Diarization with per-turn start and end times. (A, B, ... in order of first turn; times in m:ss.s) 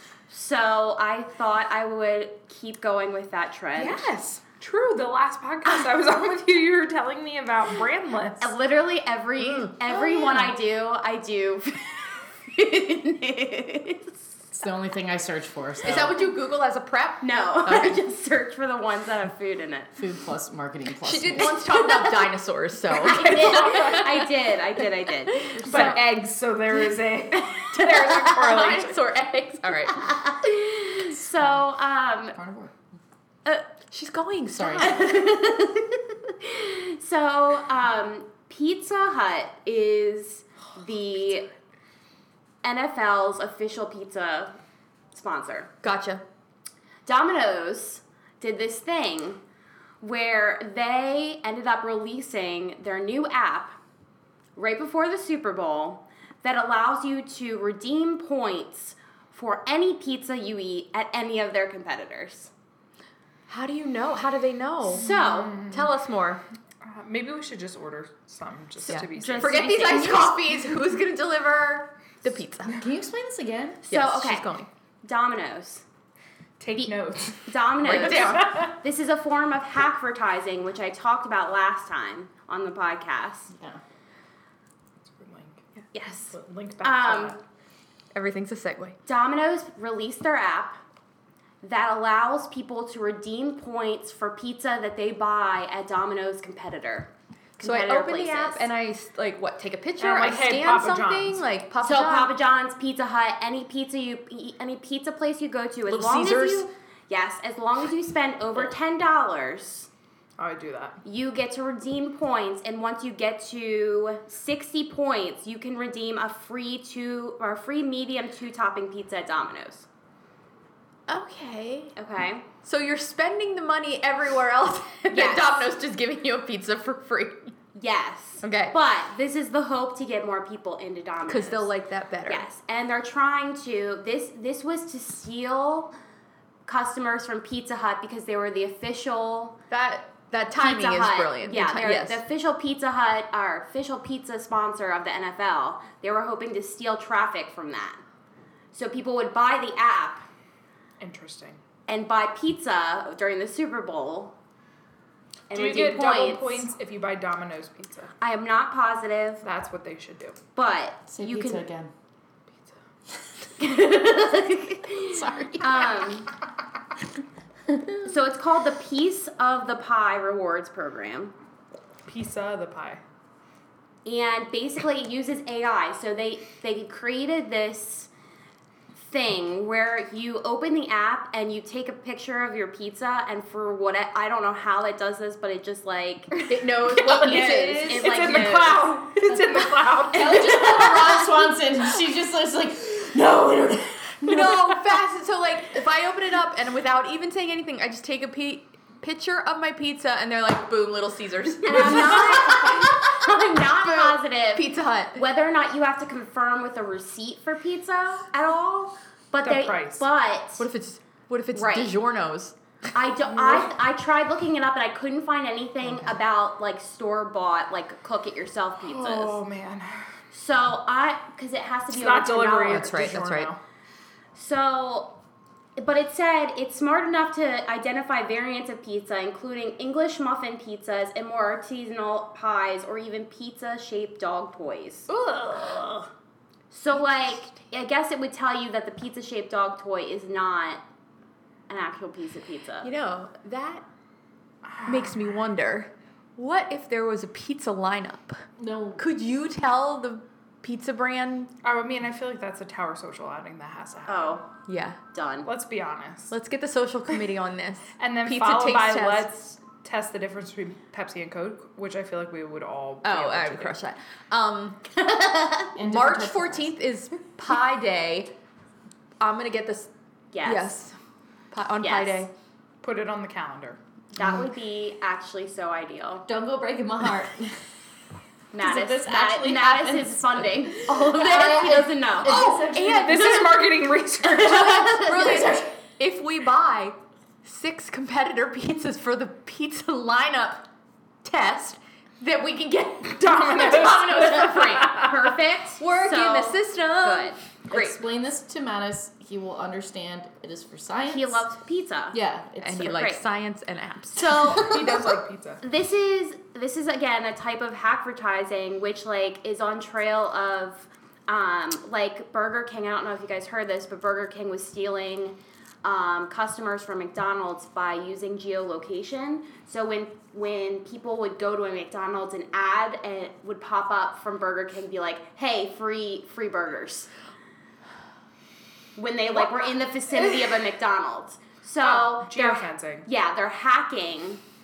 0:00.3-0:04.1 A
0:03.8-0:08.6 B
0:08.4-0:14.5 A
0:09.4-0:09.7 C
0:14.6-0:16.2 D
0:15.8-0:18.0 C
0:17.2-0:19.9 A
0:20.0-0:21.6 D
0:21.0-0:24.3 C
0:21.6-0:22.3 A
0:22.9-0:25.6 A
0:23.2-0:24.0 B
0:25.3-0:26.0 C
0:25.5-0:26.0 D
0:25.6-0:29.0 B
0:27.7-0:30.1 C
0:27.8-0:28.8 A
0:29.9-0:32.4 A
0:31.2-0:31.7 D
0:32.3-0:32.7 D
0:33.5-0:35.3 C
0:34.5-0:35.0 D
0:34.6-0:41.5 A
0:42.6-0:44.6 A
0:45.1-0:45.7 A
0:45.8-0:46.2 C
0:47.1-0:49.4 A
0:50.0-0:53.8 A
0:54.6-1:02.5 A
1:03.5-1:06.4 C
1:04.9-1:05.7 A
1:05.0-1:05.9 B
1:06.8-1:10.0 B
1:08.9-1:12.8 C
1:08.9-1:10.4 A
1:12.8-1:13.8 D
1:13.9-1:14.7 C
1:13.9-1:14.5 A
1:15.0-1:15.8 A
1:16.6-1:18.7 B
1:16.8-1:23.5 A
1:17.8-1:18.5 C
1:23.5-1:23.8 D
1:25.0-1:25.7 B
1:25.9-1:27.4 A
1:26.3-1:27.4 B
1:28.1-1:29.0 C
1:29.1-1:30.8 A
1:31.6-1:38.7 A
1:37.6-1:42.3 C
1:40.0-1:41.4 B
1:41.8-1:49.9 A
1:45.9-1:46.7 C
1:50.4-1:51.0 B
1:51.0-1:59.9 A
2:01.1-2:02.0 C
2:02.0-2:02.5 A
2:02.6-2:07.5 C
2:05.1-2:05.7 A
2:07.8-2:11.7 A
2:08.4-2:08.8 C
2:11.3-2:12.4 C
2:12.3-2:15.9 A
2:16.7-2:19.6 A
2:19.7-2:22.2 C
2:20.6-2:28.0 A
2:28.7-2:30.3 A
2:31.0-2:31.6 B
2:31.9-2:34.4 A
2:35.5-2:36.7 A
2:35.5-2:38.1 B
2:38.2-2:39.4 A
2:39.4-2:40.4 B
2:40.6-2:41.6 A
2:41.1-2:41.9 D
2:43.6-2:46.3 A
2:45.0-2:46.0 D
2:47.7-2:48.1 D
2:48.0-2:51.4 A
2:52.1-2:53.0 B
2:54.0-2:58.1 A
2:59.0-3:06.5 A
3:06.4-3:10.7 B
3:06.5-3:08.7 C
3:07.1-3:09.0 A
3:09.3-3:14.6 D
3:10.6-3:11.2 A
3:14.2-3:25.2 C
3:21.6-3:30.6 A
3:29.4-3:30.1 B
3:30.6-3:32.6 C
3:31.5-3:31.9 A
3:32.9-3:39.4 A
3:33.3-3:33.7 B
3:35.8-3:36.1 C
3:38.8-3:40.2 B
3:40.3-3:43.1 A
3:41.9-3:43.6 B
3:42.6-3:43.5 C
3:44.4-3:45.2 A
3:45.8-3:55.1 A
3:55.4-3:56.0 C
3:56.7-4:00.8 A
4:01.7-4:02.9 A
4:02.8-4:03.8 C
4:04.6-4:05.2 B
4:04.9-4:08.4 C
4:08.6-4:09.0 D
4:09.0-4:11.5 C
4:11.6-4:14.4 B
4:14.1-4:14.5 A
4:14.7-4:15.0 C
4:15.1-4:15.5 A
4:15.4-4:16.3 B
4:16.3-4:19.3 C
4:18.0-4:23.8 B
4:23.0-4:25.0 C
4:25.1-4:25.6 A
4:25.8-4:26.7 D
4:25.8-4:28.3 C
4:29.2-4:29.9 C
4:30.3-4:30.7 A
4:30.4-4:31.0 C
4:31.5-4:32.3 C
4:31.8-4:32.3 A
4:32.8-4:33.8 B
4:34.2-4:36.3 A
4:34.2-4:34.5 D
4:36.3-4:37.6 D
4:38.5-4:42.6 A
4:38.6-4:43.5 D
4:42.5-4:45.1 B
4:44.6-4:45.4 A
4:44.7-4:50.7 C
4:44.9-4:45.7 D
4:51.2-4:55.1 C
4:53.2-4:55.1 B
4:55.0-4:57.4 A
4:55.8-4:58.0 C
4:57.7-5:01.5 D
5:01.1-5:02.2 A
5:02.1-5:03.0 D
5:02.6-5:04.6 C
5:02.8-5:03.2 A
5:04.2-5:05.6 B
5:04.4-5:05.0 D
5:05.6-5:27.1 A
5:29.0-5:34.4 A
5:29.3-5:30.7 B
5:31.8-5:33.1 B